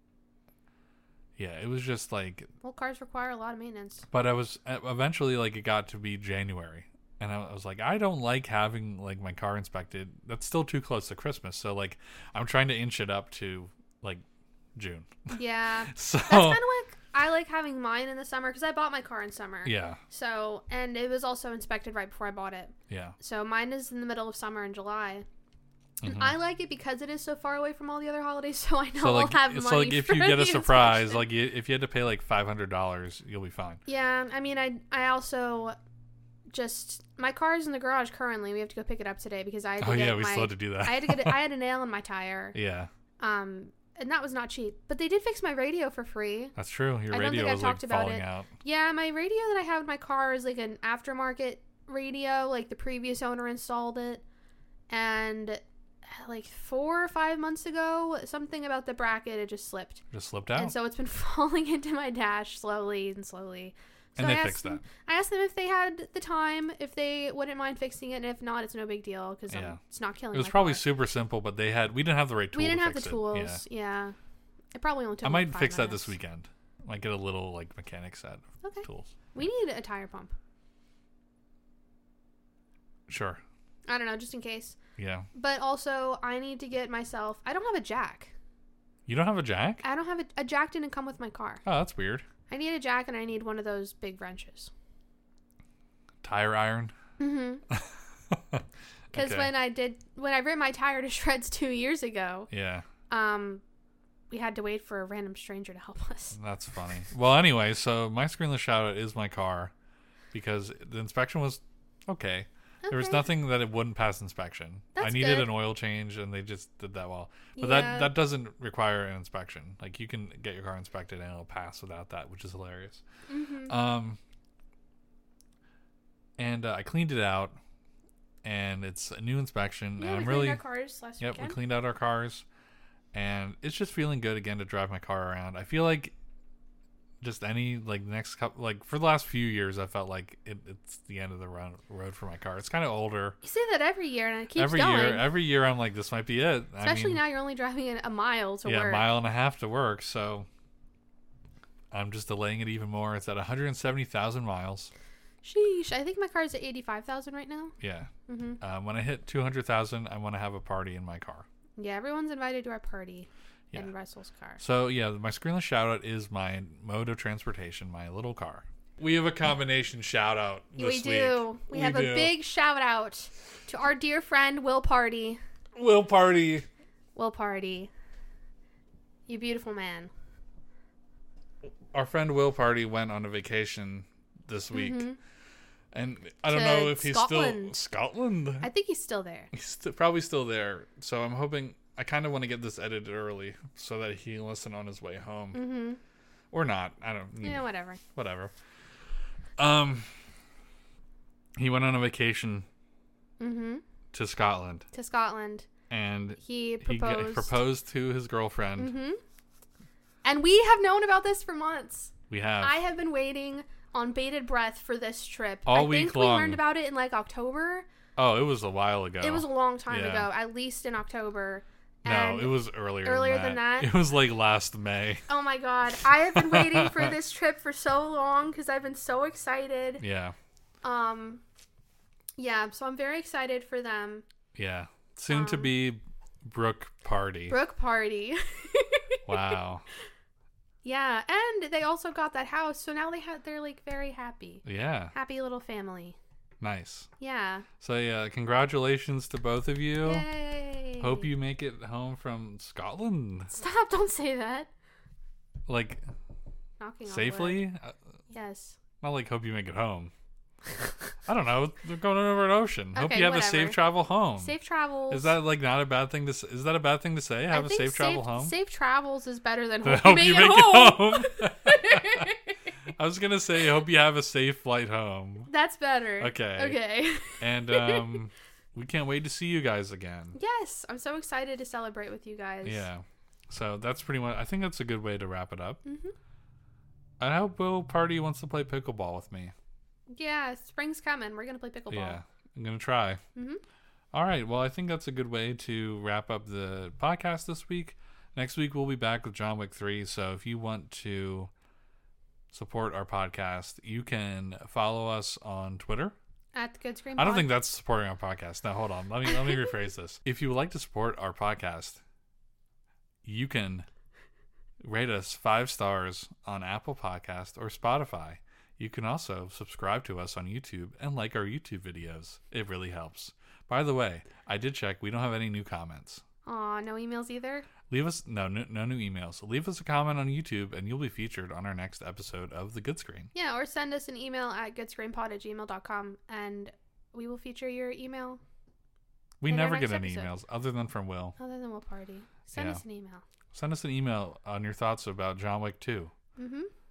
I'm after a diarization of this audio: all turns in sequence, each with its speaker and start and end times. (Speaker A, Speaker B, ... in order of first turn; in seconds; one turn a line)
Speaker A: 1.4-2.5
Speaker B: 2.6-4.1
Speaker A: 4.1-14.2
Speaker A: 14.8-15.4
Speaker B: 15.3-25.3
Speaker A: 15.9-16.6
Speaker A: 19.6-20.0
Speaker A: 22.9-23.2
Speaker A: 26.0-26.4
Speaker B: 26.1-31.3
Speaker A: 29.0-33.8
Speaker B: 33.9-35.8
Speaker B: 36.5-42.5
Speaker A: 39.8-41.4
Speaker A: 42.5-42.9
Speaker B: 43.2-46.5
Speaker A: 46.6-48.5
Speaker B: 47.1-54.2
Speaker B: 54.9-60.0
Speaker A: 60.1-60.8
Speaker B: 60.6-70.8
Speaker A: 64.2-64.8
Speaker A: 69.5-69.8
Speaker A: 70.3-73.6
Speaker B: 72.5-74.2
Speaker B: 74.8-76.2
Speaker A: 75.2-79.2
Speaker B: 78.6-80.3
Speaker A: 83.1-83.4
Speaker B: 83.9-84.8
Speaker A: 85.0-85.3
Speaker B: 85.3-88.3
Speaker A: 89.1-89.8
Speaker B: 89.8-91.7
Speaker A: 91.7-92.3
Speaker B: 92.5-94.7
Speaker A: 96.2-96.9
Speaker B: 97.2-97.7
Speaker A: 97.7-99.5
Speaker B: 99.1-102.5
Speaker A: 102.5-102.9
Speaker B: 103.1-103.6
Speaker B: 104.3-106.4
Speaker A: 106.3-109.7
Speaker A: 110.3-123.0
Speaker B: 112.8-113.3
Speaker B: 115.0-115.5
Speaker B: 117.6-118.1
Speaker B: 123.3-123.8
Speaker A: 123.7-124.2
Speaker A: 126.4-127.6
Speaker A: 128.4-130.6
Speaker B: 130.0-131.6
Speaker A: 131.2-132.4
Speaker A: 133.1-136.2
Speaker A: 137.2-143.4
Speaker B: 143.4-145.3
Speaker A: 144.6-147.2
Speaker B: 146.8-149.1
Speaker A: 148.7-150.5
Speaker A: 151.9-154.9
Speaker B: 155.4-157.7
Speaker A: 157.8-161.5
Speaker B: 158.3-158.6
Speaker B: 161.8-164.6
Speaker A: 164.6-172.4
Speaker B: 170.8-175.4
Speaker A: 175.8-176.7
Speaker B: 177.2-177.9
Speaker B: 179.3-180.1
Speaker A: 181.9-185.1
Speaker B: 184.7-185.2
Speaker A: 185.9-188.7
Speaker B: 186.5-187.8
Speaker B: 188.6-189.5
Speaker A: 189.5-195.6
Speaker B: 195.5-196.0
Speaker A: 196.5-198.5
Speaker B: 197.4-198.0
Speaker A: 199.6-200.2
Speaker A: 201.6-202.7
Speaker B: 203.4-203.8
Speaker A: 204.1-204.9
Speaker B: 204.9-205.7
Speaker A: 205.9-208.9
Speaker B: 206.4-207.6
Speaker B: 208.8-209.2
Speaker B: 210.2-217.9
Speaker A: 212.3-212.8
Speaker A: 215.7-216.6
Speaker A: 218.2-220.3
Speaker B: 219.2-223.9
Speaker A: 222.1-225.2
Speaker B: 225.3-230.0
Speaker A: 226.1-227.2
Speaker A: 230.0-230.4
Speaker B: 230.8-231.4
Speaker B: 232.4-234.2
Speaker A: 234.6-237.6
Speaker B: 235.3-235.7
Speaker B: 237.5-239.6
Speaker A: 239.3-239.8
Speaker B: 240.8-246.2
Speaker A: 244.7-245.1
Speaker A: 246.6-247.1
Speaker B: 247.2-247.7
Speaker A: 247.8-250.3
Speaker B: 250.0-251.3
Speaker A: 251.0-253.5
Speaker B: 253.5-254.7
Speaker A: 255.7-256.1
Speaker B: 256.8-257.7
Speaker A: 257.1-258.0
Speaker B: 258.3-258.8
Speaker A: 259.0-260.1
Speaker A: 261.3-264.5
Speaker B: 262.9-263.8
Speaker B: 264.4-265.4
Speaker A: 265.1-268.5
Speaker B: 267.5-272.4
Speaker A: 269.8-272.3
Speaker A: 272.9-275.5
Speaker B: 275.5-278.2
Speaker A: 276.2-276.8
Speaker A: 277.4-280.4
Speaker B: 280.4-282.9
Speaker A: 282.6-285.8
Speaker B: 285.9-286.1
Speaker A: 287.2-289.5
Speaker B: 290.1-292.2
Speaker A: 291.9-293.2
Speaker B: 293.4-293.6
Speaker A: 294.1-301.5
Speaker A: 302.5-306.1
Speaker B: 306.5-307.5
Speaker A: 307.2-312.0
Speaker A: 313.2-313.9
Speaker A: 314.8-326.2
Speaker B: 326.4-327.7
Speaker A: 327.9-333.3
Speaker B: 333.3-338.4
Speaker A: 339.4-341.4
Speaker B: 339.5-340.3
Speaker B: 341.4-343.2
Speaker A: 342.5-342.8
Speaker A: 343.5-346.1
Speaker B: 346.4-346.7